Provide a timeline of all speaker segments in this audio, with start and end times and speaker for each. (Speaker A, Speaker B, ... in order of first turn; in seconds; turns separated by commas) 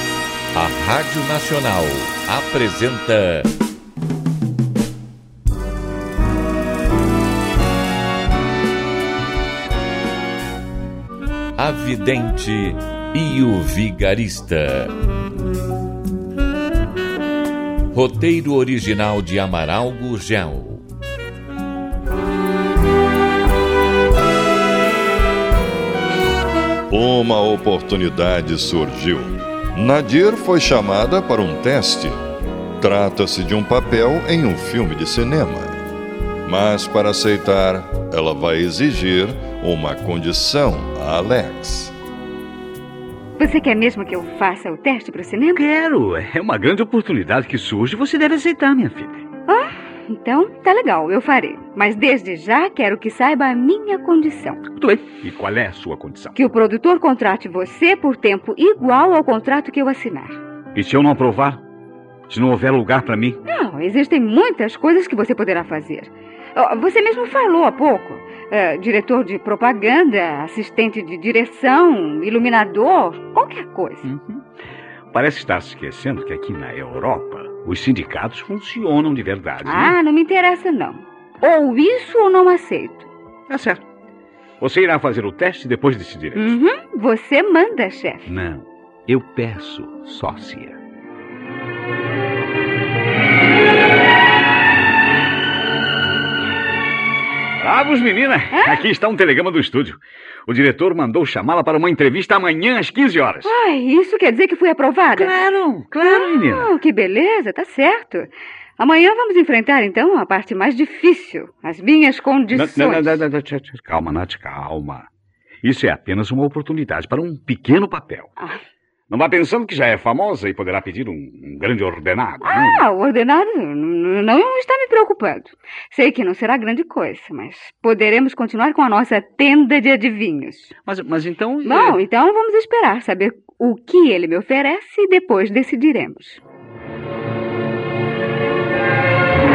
Speaker A: 0.5-3.5, Speaker A: 11.6-14.9, Speaker A: 17.9-20.8, Speaker B: 26.9-32.2, Speaker B: 32.8-35.8, Speaker B: 36.5-41.9, Speaker C: 43.4-45.6, Speaker D: 45.5-49.2, Speaker C: 49.5-54.6, Speaker D: 54.8-56.4, Speaker C: 56.4-60.4, Speaker D: 60.8-61.6, Speaker D: 62.3-63.4, Speaker C: 63.5-74.1, Speaker D: 74.0-74.4, Speaker D: 75.1-80.0, Speaker C: 79.6-83.1, Speaker D: 83.5-83.8, Speaker D: 84.6-86.6, Speaker C: 86.3-88.3, Speaker D: 88.3-90.8, Speaker D: 97.6-103.5, Speaker C: 98.5-98.8, Speaker C: 103.4-105.4, Speaker D: 105.2-106.7, Speaker C: 106.0-113.2, Speaker D: 112.5-115.1, Speaker D: 115.6-118.3, Speaker D: 119.1-122.8, Speaker C: 122.4-130.7, Speaker D: 130.8-132.0, Speaker C: 131.6-136.4